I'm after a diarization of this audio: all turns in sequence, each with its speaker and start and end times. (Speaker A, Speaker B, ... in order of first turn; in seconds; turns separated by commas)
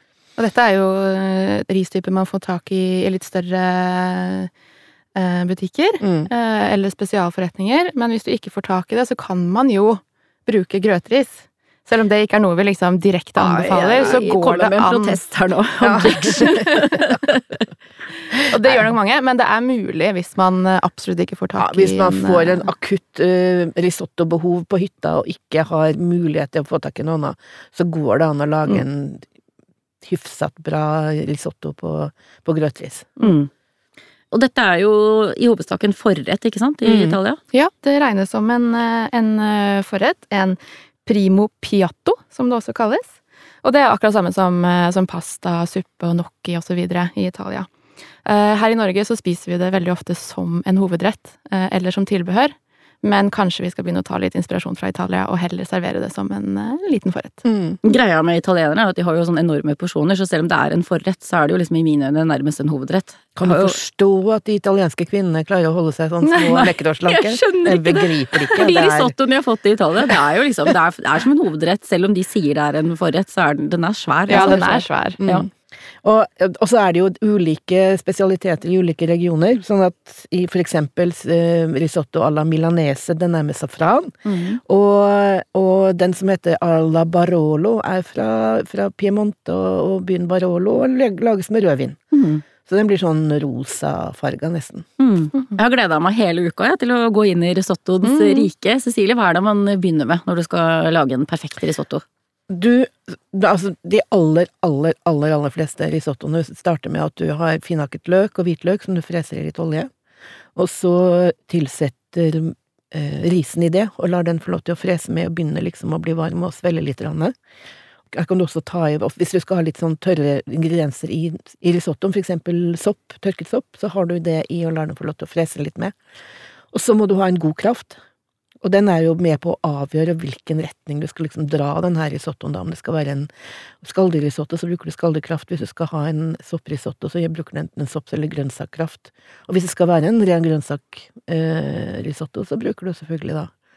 Speaker A: 0.4-4.5, Speaker A: 5.2-15.2, Speaker B: 6.0-6.3, Speaker C: 13.4-17.6, Speaker B: 15.8-17.2, Speaker A: 16.1-17.0, Speaker A: 18.4-22.7, Speaker B: 21.6-29.2, Speaker B: 30.0-33.1, Speaker C: 33.2-33.5, Speaker C: 34.3-37.4, Speaker B: 36.8-37.2, Speaker A: 37.5-47.7, Speaker A: 48.2-57.4, Speaker B: 57.4-57.8, Speaker C: 57.8-63.8, Speaker B: 63.4-69.1, Speaker C: 66.3-75.5, Speaker A: 74.3-75.2, Speaker B: 74.3-74.7, Speaker B: 75.2-75.5, Speaker B: 76.0-84.1, Speaker C: 84.3-84.6, Speaker B: 84.7-92.0, Speaker C: 92.1-92.4, Speaker B: 92.6-94.9, Speaker C: 95.0-102.0, Speaker A: 98.0-98.5, Speaker B: 102.5-109.9, Speaker B: 110.5-117.3, Speaker B: 118.1-126.0, Speaker B: 126.7-128.0, Speaker B: 128.6-133.3, Speaker B: 133.8-143.5